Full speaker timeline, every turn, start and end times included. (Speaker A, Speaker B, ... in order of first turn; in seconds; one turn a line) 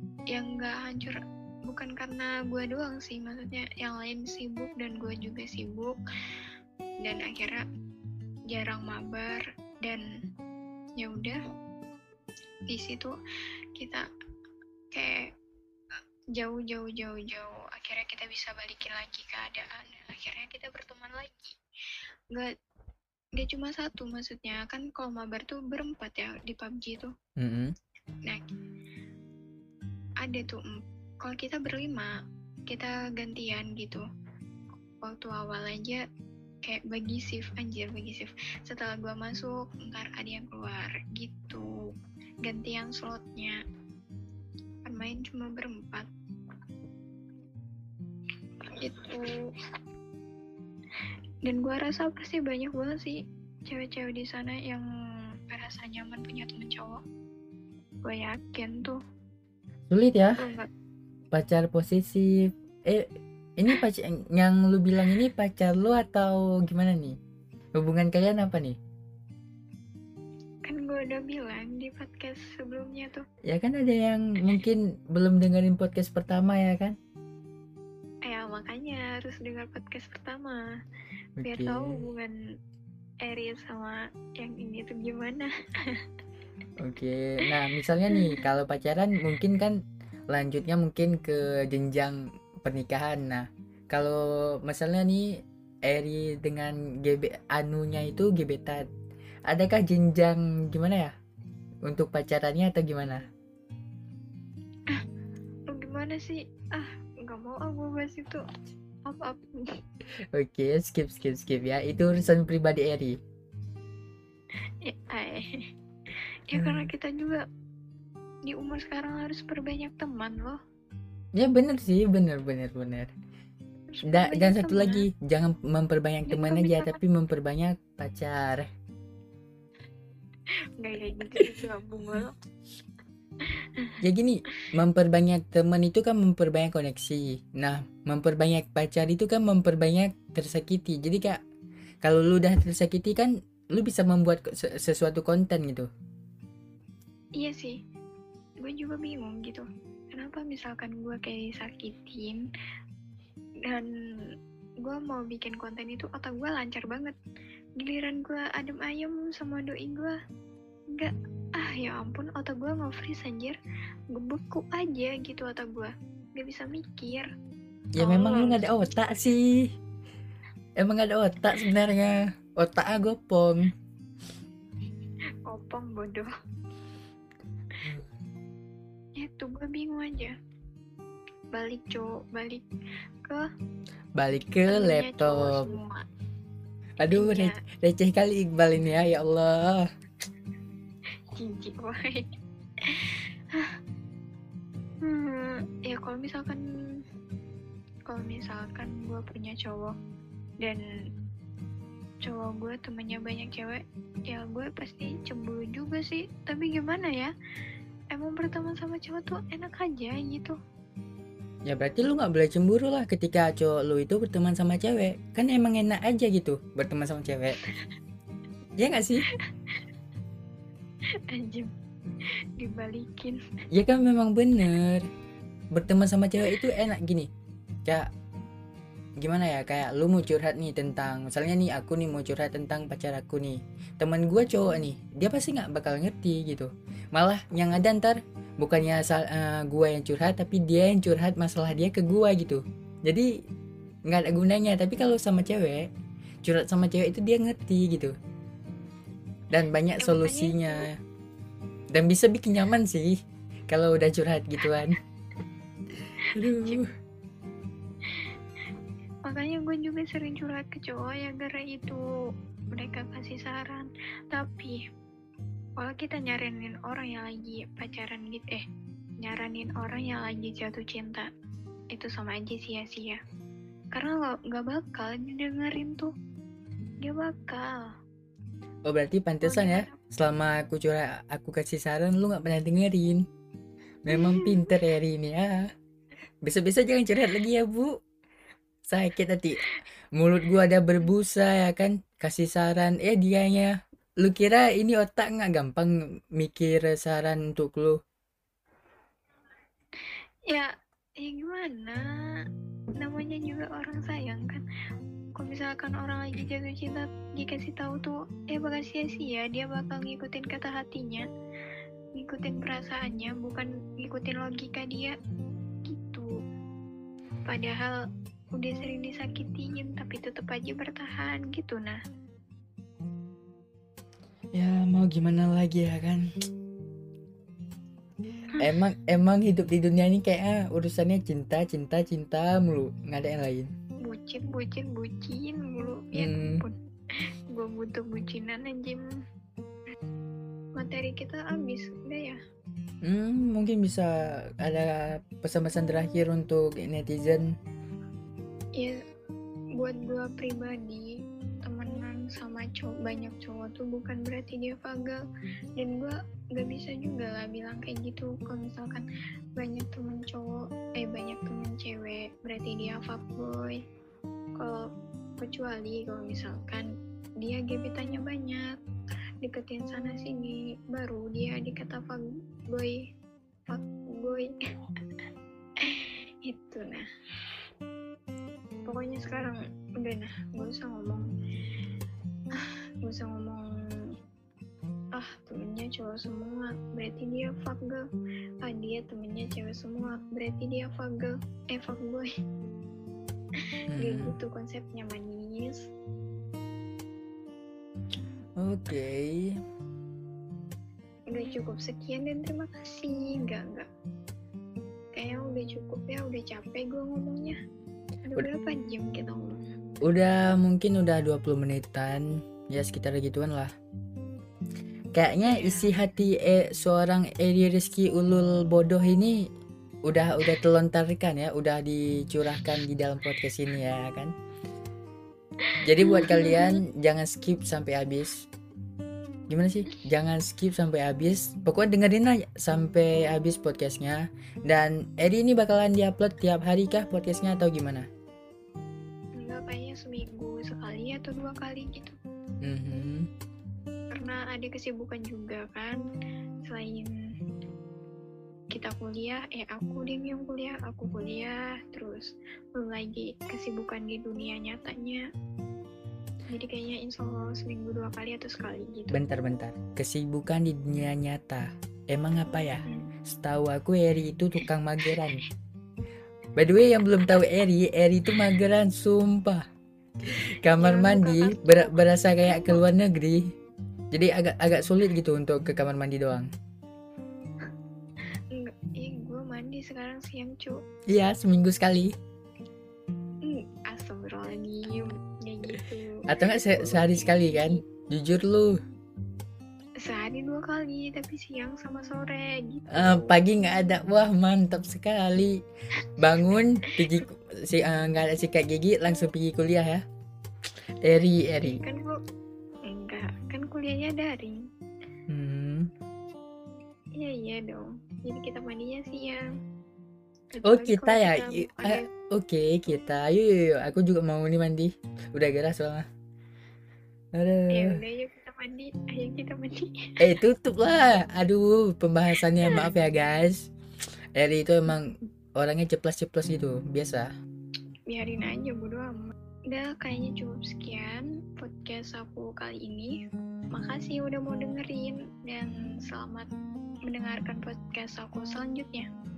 Speaker A: 0.3-6.0
Speaker A: 7.0-7.6
Speaker A: 8.5-10.0
Speaker A: 11.0-11.4
Speaker A: 12.7-13.1
Speaker A: 13.8-14.1
Speaker A: 14.9-15.3
Speaker A: 16.3-21.6
Speaker A: 23.4-27.1
Speaker B: 27.4-27.7
Speaker A: 30.2-32.1
Speaker A: 32.7-34.0
Speaker A: 35.0-36.0
Speaker A: 36.6-41.6
Speaker A: 42.5-43.6
Speaker A: 44.9-46.1
Speaker A: 48.8-49.3
Speaker A: 51.5-54.8
Speaker A: 55.5-57.0
Speaker A: 58.0-59.0
Speaker B: 59.9-60.4
Speaker A: 60.4-60.7
Speaker B: 61.3-67.2
Speaker B: 67.8-68.8
Speaker A: 70.7-73.2
Speaker B: 73.5-77.0
Speaker A: 78.2-80.6
Speaker B: 81.4-82.0
Speaker A: 81.4-82.3
Speaker A: 83.2-86.0
Speaker B: 86.8-89.8
Speaker A: 88.1-88.4
Speaker B: 90.3-95.3
Speaker B: 95.8-98.8
Speaker B: 99.5-101.1
Speaker B: 101.8-103.2
Speaker A: 105.7-108.4
Speaker A: 109.0-109.5
Speaker B: 110.3-113.2
Speaker A: 114.8-115.6
Speaker A: 116.5-117.4
Speaker B: 116.5-116.9
Speaker A: 118.5-120.6
Speaker B: 121.4-123.1
Speaker A: 123.9-125.1
Speaker B: 124.1-128.7
Speaker A: 126.3-127.0
Speaker A: 130.8-132.3
Speaker A: 133.4-133.9
Speaker B: 134.0-141.4
Speaker B: 142.0-145.9
Speaker A: 147.4-147.8
Speaker A: 148.6-152.4
Speaker A: 154.8-157.1
Speaker A: 157.8-160.1
Speaker A: 160.9-163.6
Speaker A: 164.1-167.3
Speaker B: 167.9-169.5
Speaker A: 168.0-168.6
Speaker B: 170.8-173.7
Speaker A: 175.4-176.3
Speaker A: 179.2-180.3
Speaker A: 181.5-182.6
Speaker B: 184.2-185.7
Speaker A: 184.7-186.0
Speaker B: 187.0-189.8
Speaker A: 187.0-187.6
Speaker A: 191.3-192.2
Speaker A: 192.8-193.7
Speaker A: 195.0-196.6
Speaker A: 198.1-199.9
Speaker A: 202.2-207.3
Speaker A: 208.1-210.5
Speaker B: 211.7-217.6
Speaker A: 217.6-217.9
Speaker B: 218.8-219.2
Speaker A: 219.3-219.8
Speaker A: 221.3-221.7
Speaker A: 222.6-223.4
Speaker B: 223.7-225.0
Speaker B: 225.7-227.3
Speaker B: 229.2-243.3
Speaker B: 244.1-245.9
Speaker B: 246.4-248.1
Speaker B: 249.5-250.9
Speaker A: 250.0-250.8
Speaker B: 251.9-253.2
Speaker B: 253.7-255.0
Speaker A: 254.6-254.9
Speaker A: 256.2-256.8
Speaker B: 256.2-256.9
Speaker A: 258.1-258.3
Speaker A: 259.2-262.0
Speaker A: 262.7-264.8
Speaker A: 265.8-268.6
Speaker A: 269.2-271.3
Speaker A: 271.9-273.2
Speaker A: 273.9-276.1
Speaker A: 277.0-277.8
Speaker B: 278.9-283.2
Speaker A: 279.4-280.0
Speaker B: 284.1-285.6
Speaker A: 284.1-284.8
Speaker B: 286.4-287.9
Speaker B: 288.9-289.6
Speaker B: 290.1-298.0
Speaker A: 300.5-302.4
Speaker A: 303.0-304.6
Speaker A: 305.4-311.2
Speaker A: 312.2-315.1
Speaker A: 315.9-316.3
Speaker A: 317.4-318.0
Speaker A: 318.6-322.0
Speaker B: 324.5-326.2
Speaker B: 328.6-333.7
Speaker A: 334.0-336.7
Speaker B: 336.2-336.6
Speaker A: 337.5-339.0
Speaker A: 340.8-342.4
Speaker B: 343.0-347.4
Speaker A: 349.8-351.1
Speaker A: 351.6-355.2
Speaker A: 355.8-363.8
Speaker A: 364.6-364.8
Speaker A: 365.4-366.9
Speaker A: 367.4-368.6
Speaker A: 369.4-373.0
Speaker A: 373.7-374.5
Speaker A: 375.8-377.0
Speaker A: 378.9-381.2
Speaker A: 382.6-383.7
Speaker A: 385.1-388.0
Speaker A: 388.6-392.3
Speaker B: 393.9-394.3
Speaker A: 394.0-395.8
Speaker B: 398.6-399.5
Speaker A: 401.3-403.9
Speaker A: 405.1-407.6
Speaker A: 408.3-409.6
Speaker B: 410.0-413.7
Speaker B: 415.1-419.4
Speaker A: 415.4-415.9
Speaker B: 420.1-424.3
Speaker A: 425.6-426.8
Speaker B: 425.8-428.4
Speaker B: 429.5-438.1
Speaker A: 439.4-442.1
Speaker B: 442.6-443.3
Speaker A: 444.1-446.0
Speaker A: 446.6-447.1
Speaker A: 448.7-455.2
Speaker A: 456.5-459.2
Speaker B: 459.1-465.4
Speaker A: 465.0-465.4
Speaker B: 466.6-469.6
Speaker B: 470.3-473.4
Speaker A: 470.8-472.8
Speaker B: 474.1-476.5
Speaker A: 478.5-480.8
Speaker B: 481.1-482.1
Speaker A: 483.4-487.8
Speaker B: 486.3-488.8
Speaker A: 490.0-493.4
Speaker B: 492.9-495.6
Speaker A: 496.0-497.2
Speaker B: 496.2-500.0
Speaker B: 501.0-501.8
Speaker A: 501.6-502.2
Speaker A: 502.9-504.6
Speaker B: 505.3-505.9
Speaker A: 507.2-509.4
Speaker A: 510.5-512.0
Speaker B: 510.6-516.0
Speaker B: 517.3-518.0
Speaker A: 517.7-520.1
Speaker B: 520.2-523.7
Speaker B: 524.4-527.3
Speaker A: 528.1-533.1
Speaker A: 533.7-536.5
Speaker A: 537.1-539.1